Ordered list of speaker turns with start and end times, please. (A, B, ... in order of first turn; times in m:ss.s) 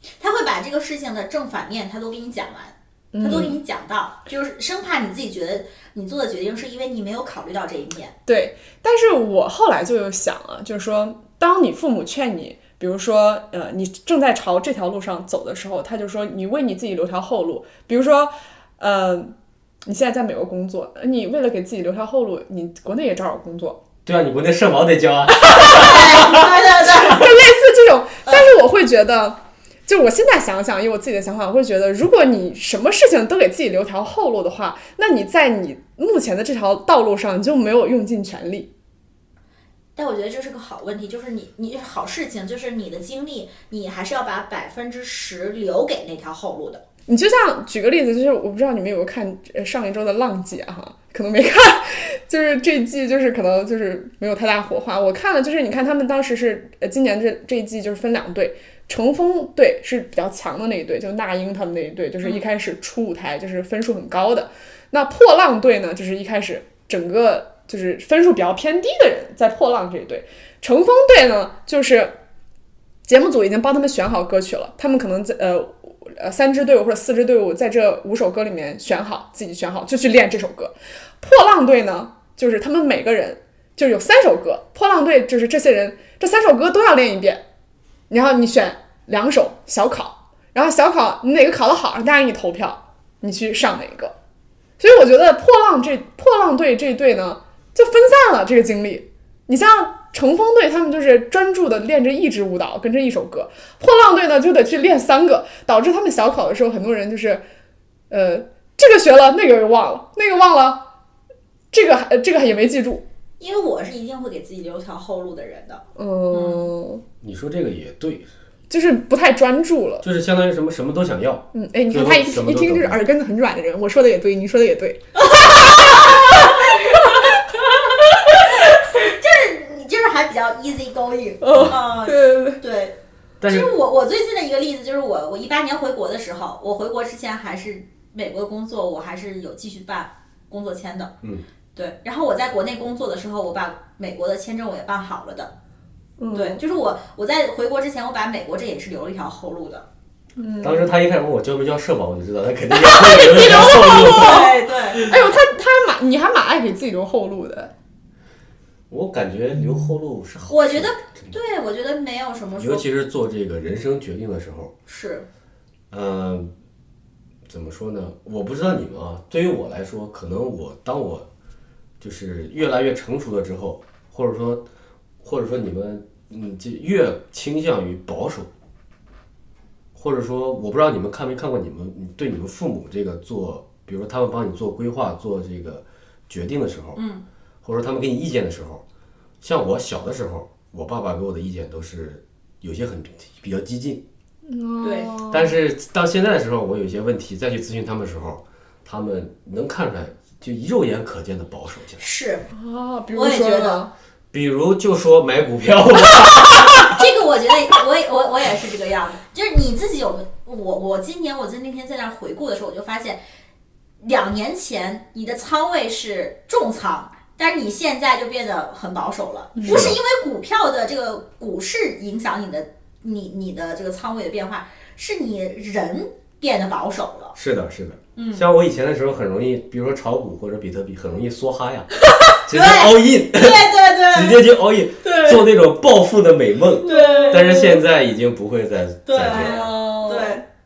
0:00.2-0:08.1 A
0:03.1-0:03.6 B
0:08.3-0:19.3 B
0:19.8-0:23.8 B
0:24.0-0:27.2 C
0:25.5-0:27.2 A
0:25.5-0:25.9 B
0:26.8-0:38.7 B
0:28.2-0:28.5 A
0:40.0-0:46.8 A
0:47.1-1:12.2 B
1:13.1-1:27.4 B
1:28.1-1:34.1 B
1:34.8-1:47.4 B
1:48.1-1:50.9 B
1:51.7-1:53.0 B
1:53.4-1:56.7 A
1:56.0-1:57.0 B
1:57.2-1:58.3 C
1:58.7-2:00.0 B
2:00.0-2:03.0 C
2:01.5-2:07.5 B
2:05.1-2:07.6 A
2:08.5-2:13.0 A
2:11.4-2:12.6 B
2:11.5-2:11.8 C
2:13.4-2:13.7 C
2:13.5-2:21.1 A
2:21.7-2:25.5 A
2:26.2-2:26.6 B
2:26.3-2:29.9 A
2:30.4-2:30.9 B
2:30.6-2:35.3 C
2:32.7-2:37.7 B
2:33.4-2:35.0 A
2:38.9-2:41.3 C
2:40.5-2:42.8 A
2:42.6-2:44.7 C
2:44.9-2:45.3 A
2:45.9-2:46.5 C
2:47.5-2:51.3 C
2:52.0-2:54.6 C
2:55.2-2:58.5 C
2:59.9-3:07.0 C
3:06.9-3:07.2 A
3:07.6-3:08.8 C
3:09.4-3:14.0 C
3:14.5-3:15.6 B
3:14.8-3:15.1 A
3:15.3-3:22.0 C
3:22.0-3:22.5 A
3:22.5-3:23.9 B
3:23.1-3:23.8 A
3:24.3-3:26.9 C
3:26.8-3:33.2 A
3:34.0-3:47.3 A
3:39.6-3:39.9 B
3:39.6-3:40.0 C
3:47.3-3:51.9 C
3:48.2-3:48.5 A
3:52.4-3:59.7 C
3:52.5-3:54.4 A
3:55.0-3:55.4 A
3:56.8-3:57.7 A
3:56.9-3:57.8 B
3:59.0-4:00.4 A
3:59.2-4:00.4 B